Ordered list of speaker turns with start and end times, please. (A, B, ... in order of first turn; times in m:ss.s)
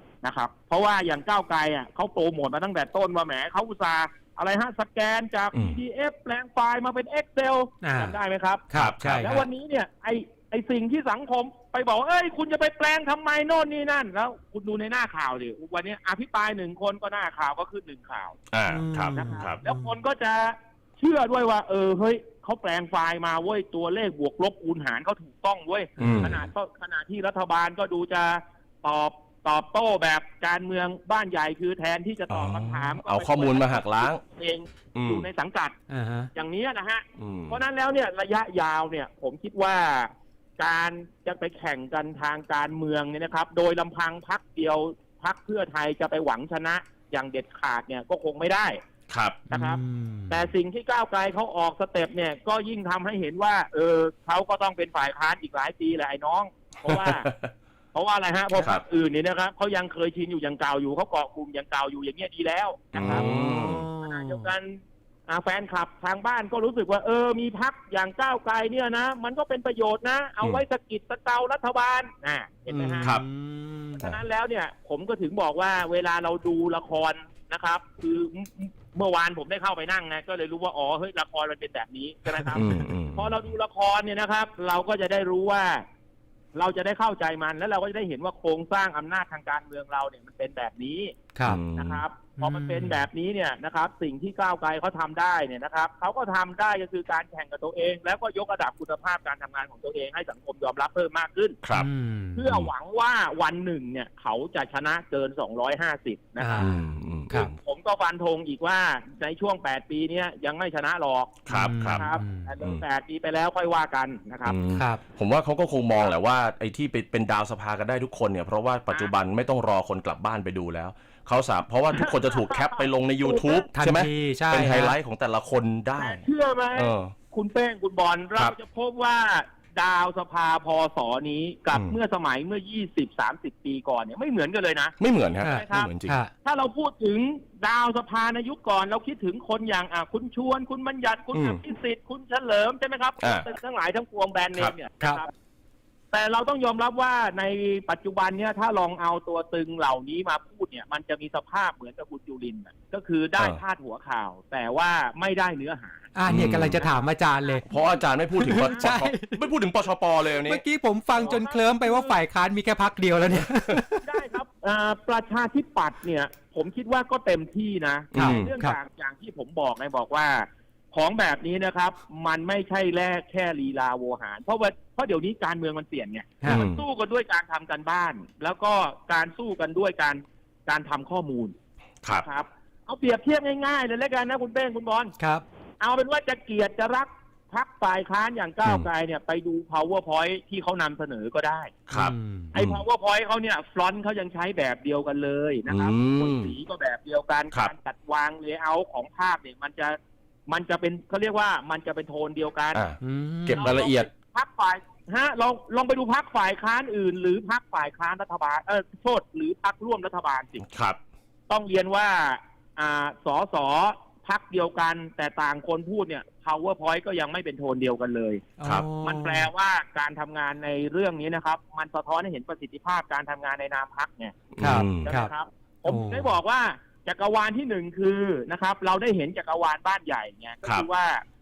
0:00.2-0:08.6 A
0:05.5-0:05.8 B
0:07.8-0:08.2 C
0:08.7-0:09.4 C
0:08.7-0:09.4 B
0:09.2-0:18.4 A
0:18.5-0:19.6 B
0:18.7-0:19.9 C
0:19.1-0:35.7 A
0:26.0-0:26.5 C
0:26.0-0:26.4 B
0:32.3-0:34.2 B
0:34.9-0:35.3 B
0:35.9-0:36.3 C
0:36.3-0:48.8 A
0:37.2-0:37.6 B
0:49.1-0:49.4 B
0:49.5-0:50.5 C
0:49.5-0:57.3 A
0:56.9-0:57.5 B
0:57.9-1:13.2 A
1:02.9-1:03.9 B
1:03.0-1:04.5 C
1:12.7-1:14.0 C
1:14.0-1:22.6 A
1:22.3-1:22.9 C
1:22.5-1:23.4 B
1:23.1-1:25.8 A
1:26.5-1:31.2 A
1:31.3-1:31.6 C
1:31.4-1:32.0 B
1:31.8-1:41.6 A
1:32.4-1:33.0 C
1:41.6-1:41.9 B
1:41.7-1:42.5 C
1:42.3-1:46.8 A
1:46.4-1:46.8 C
1:46.6-1:47.5 B
1:47.4-1:54.6 A
1:51.5-1:52.0 B
1:51.5-1:52.5 C
1:54.4-2:06.2 B
1:54.7-1:55.0 C
1:58.9-1:59.1 A
2:01.9-2:03.7 A
2:03.7-2:05.0 C
2:06.0-2:15.9 A
2:06.7-2:07.1 B
2:11.7-2:12.0 B
2:15.0-2:16.2 B
2:15.4-2:16.3 C
2:16.4-2:25.3 A
2:21.3-2:21.6 B
2:26.1-2:36.1 A
2:36.1-2:37.6 C
2:36.2-2:36.8 B
2:36.8-2:39.0 A
2:37.7-2:40.6 B
2:38.4-2:39.4 C
2:40.4-2:44.2 C
2:41.2-2:42.2 A
2:44.0-3:01.5 A
2:48.1-2:48.5 B
2:48.1-2:48.8 C
2:56.4-2:56.6 C
2:56.4-2:56.8 B
3:02.1-3:05.1 A
3:05.2-3:05.4 C
3:05.8-3:11.7 A
3:11.9-3:12.8 B
3:11.9-3:12.5 C
3:12.5-3:22.8 A
3:15.7-3:16.5 B
3:22.7-3:24.1 B
3:23.0-3:23.8 C
3:23.5-3:30.6 A
3:30.6-3:31.0 B
3:31.5-3:38.4 A
3:38.6-3:39.5 C
3:39.0-3:44.4 A
3:44.6-3:45.1 B
3:44.6-3:45.3 C
3:45.0-3:51.2 A
3:45.8-3:46.4 C